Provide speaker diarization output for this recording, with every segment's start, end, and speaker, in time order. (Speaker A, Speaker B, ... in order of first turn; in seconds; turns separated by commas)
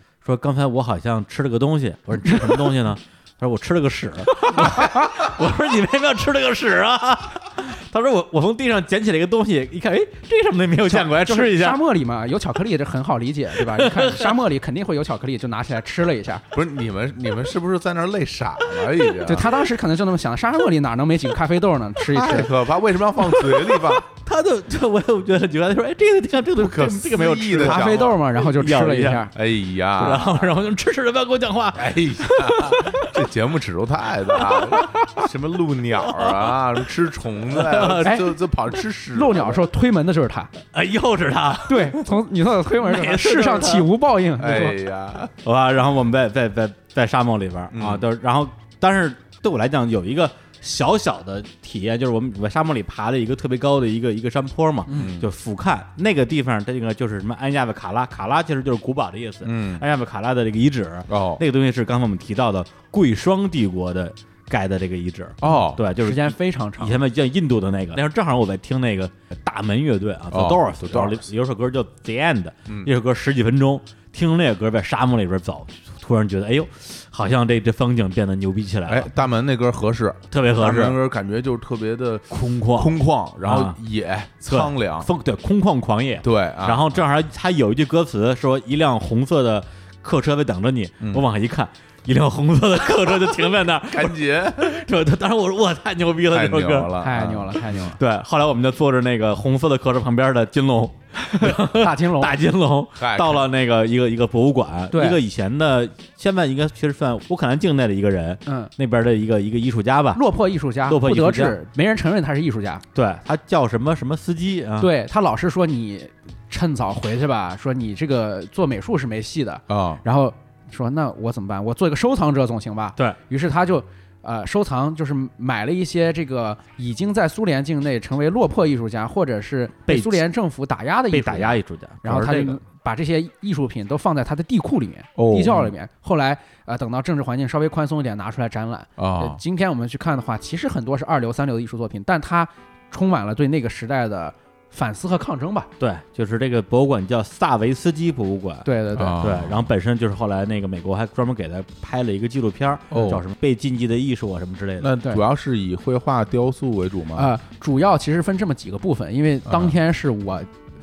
Speaker A: 0.2-11.8, Speaker B: 4.5-5.1, Speaker B: 10.8-16.4, Speaker A: 13.6-14.4, Speaker C: 16.5-19.6, Speaker B: 19.2-22.5, Speaker C: 22.1-24.1, Speaker A: 23.2-29.3, Speaker C: 26.6-28.2, Speaker B: 27.6-29.3, Speaker C: 29.3-30.5, Speaker A: 30.0-33.3, Speaker C: 31.8-39.7, Speaker A: 34.3-35.1, Speaker A: 36.0-36.8, Speaker A: 37.5-38.2, Speaker B: 38.0-38.4, Speaker B: 39.1-40.5, Speaker A: 40.7-42.1, Speaker B: 41.7-44.8, Speaker A: 42.7-43.9, Speaker C: 44.4-45.3, Speaker A: 45.4-79.1, Speaker C: 47.7-48.0, Speaker B: 54.9-55.1, Speaker C: 54.9-55.3, Speaker C: 59.4-59.8, Speaker C: 61.1-61.4, Speaker C: 65.4-65.8, Speaker B: 66.0-67.0, Speaker C: 70.3-71.3, Speaker C: 78.9-85.1, Speaker A: 80.3-81.0, Speaker A: 82.3-83.8, Speaker A: 84.5-97.3, Speaker C: 86.2-87.0, Speaker C: 91.0-91.2, Speaker C: 93.9-94.8, Speaker C: 96.3-97.8, Speaker B: 97.0-98.0, Speaker A: 97.9-110.2, Speaker B: 101.3-102.4, Speaker C: 103.0-103.5, Speaker B: 104.9-105.2, Speaker B: 108.5-108.7, Speaker B: 110.1-112.8, Speaker A: 110.9-111.6, Speaker A: 113.0-114.9, Speaker B: 114.8-145.7, Speaker C: 119.7-120.0, Speaker A: 129.9-130.2, Speaker A: 131.1-132.6, Speaker C: 135.2-135.7, Speaker C: 139.0-139.4, Speaker A: 145.8-154.9, Speaker B: 148.7-149.2, Speaker C: 148.9-149.7, Speaker C: 152.9-153.2, Speaker C: 154.8-157.3, Speaker B: 157.2-160.5, Speaker C: 159.5-159.7